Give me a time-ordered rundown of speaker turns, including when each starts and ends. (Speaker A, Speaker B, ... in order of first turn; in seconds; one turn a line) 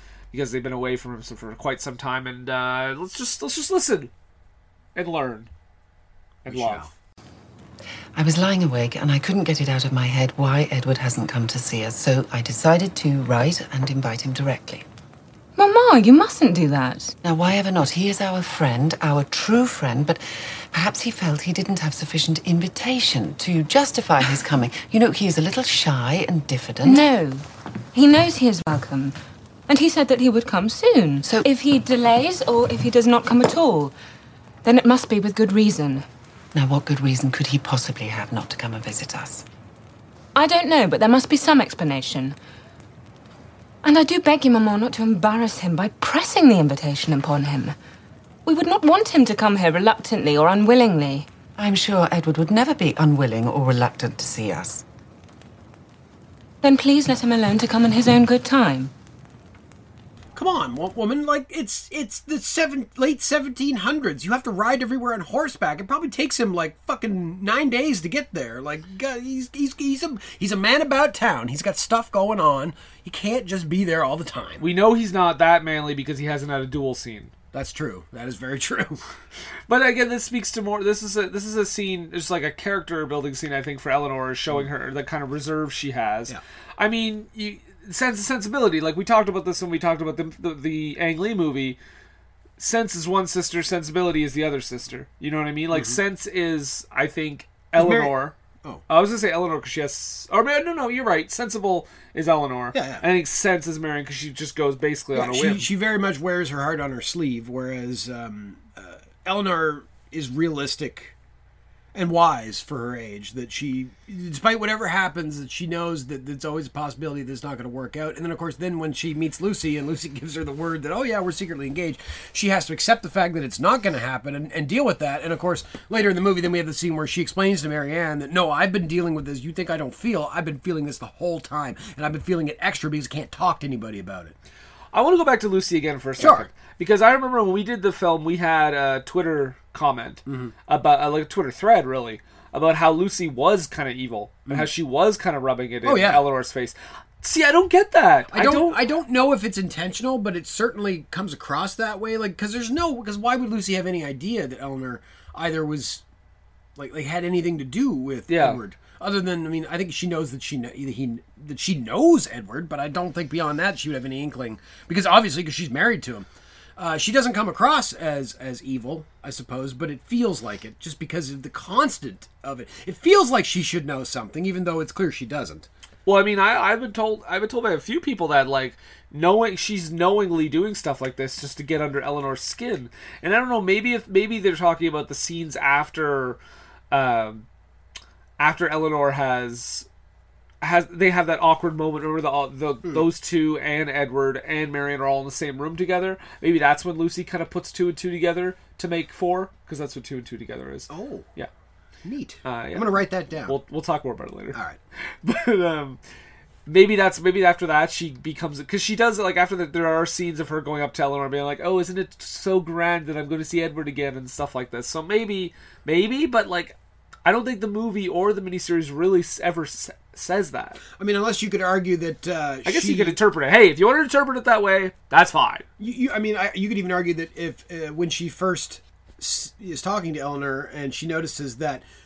Speaker A: 0.3-4.1
Speaker A: 4.9-5.5
Speaker A: 6.4-6.9
Speaker B: 6.5-6.9
Speaker C: 8.1-14.8
Speaker D: 15.6-17.1
Speaker C: 17.2-27.1
Speaker D: 26.8-29.1
Speaker D: 29.7-33.9
Speaker D: 34.6-36.0
Speaker C: 36.5-39.4
Speaker D: 40.3-42.4
Speaker D: 43.8-47.7
Speaker D: 48.5-51.3
Speaker C: 51.6-54.8
Speaker D: 56.6-58.9
Speaker B: 60.4-74.6
Speaker A: 74.6-77.3
Speaker B: 77.5-79.0
Speaker A: 79.7-91.8
Speaker A: 92.6-98.3
Speaker B: 95.7-96.0
Speaker B: 97.7-98.8
Speaker A: 98.9-105.7
Speaker B: 102.7-103.0
Speaker B: 105.1-111.1
Speaker B: 111.9-134.3
Speaker A: 134.9-148.9
Speaker B: 136.2-136.5
Speaker B: 140.2-140.5
Speaker B: 145.8-146.2
Speaker B: 148.3-156.0
Speaker B: 156.8-175.7
Speaker A: 158.3-158.6
Speaker A: 176.1-186.4
Speaker A: 186.9-187.4
Speaker A: 188.4-189.9
Speaker A: 190.6-201.5
Speaker B: 200.9-201.3
Speaker B: 202.0-203.6
Speaker A: 202.4-204.6
Speaker B: 204.5-204.8
Speaker A: 205.2-206.0
Speaker A: 206.7-220.8
Speaker B: 221.0-223.2
Speaker A: 222.6-225.7
Speaker B: 225.8-231.8